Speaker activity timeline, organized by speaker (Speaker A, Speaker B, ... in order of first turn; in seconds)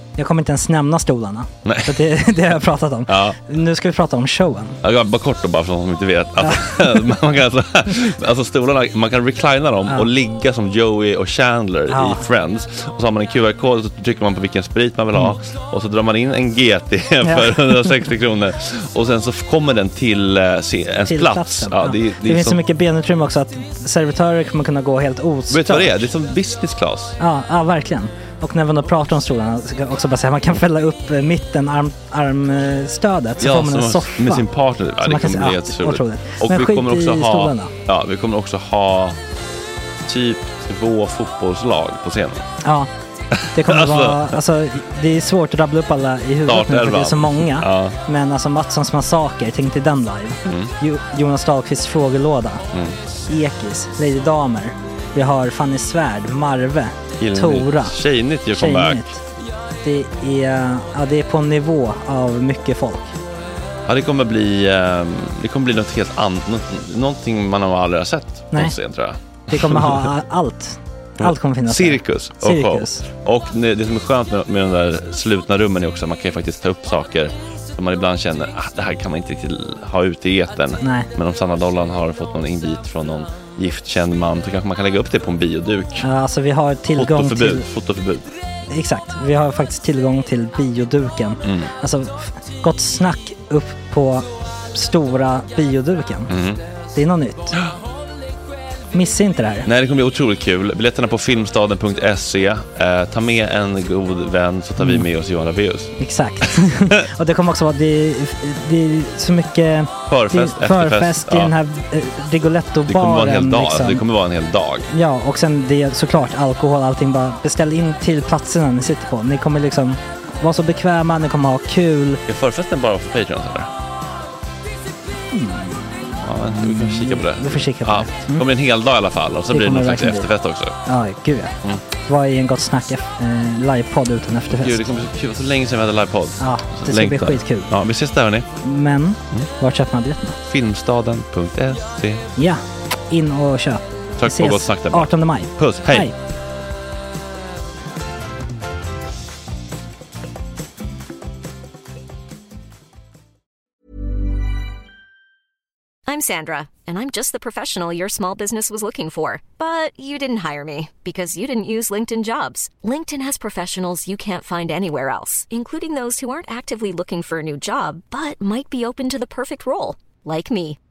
Speaker A: 0.2-4.8, 6.5-6.8, 11.9-12.2, 17.2-17.9, 21.1-26.1, 27.2-34.5, 35.0-37.7, 42.6-42.9, 43.5-52.6, 53.3-58.0, 58.5-59.2, 59.8-63.2, 69.5-73.0, 80.8-81.1, 86.0-87.7, 88.7-96.4, 96.9-97.6, 98.9-99.7, 106.0-114.0, 114.9-122.2, 125.3-128.5, 129.5-130.3, 130.9-134.8, 136.4-137.7, 138.6-140.4, 142.4-146.1
Speaker B: 1.6-2.0, 3.1-3.4, 4.8-22.6, 25.5-27.2, 33.4-39.2, 40.1-42.5, 43.6-44.4, 46.5-48.0, 50.5-50.7, 52.7-53.0, 57.2-59.1, 63.9-70.1, 71.2-86.1, 86.9-88.3, 91.4-91.7, 96.3-96.6, 99.7-106.0, 110.1-111.5, 112.9-114.9, 122.3-123.7, 126.2-130.8, 134.5-138.5, 140.4-142.3, 144.2-146.1
Speaker C: 156.1-170.8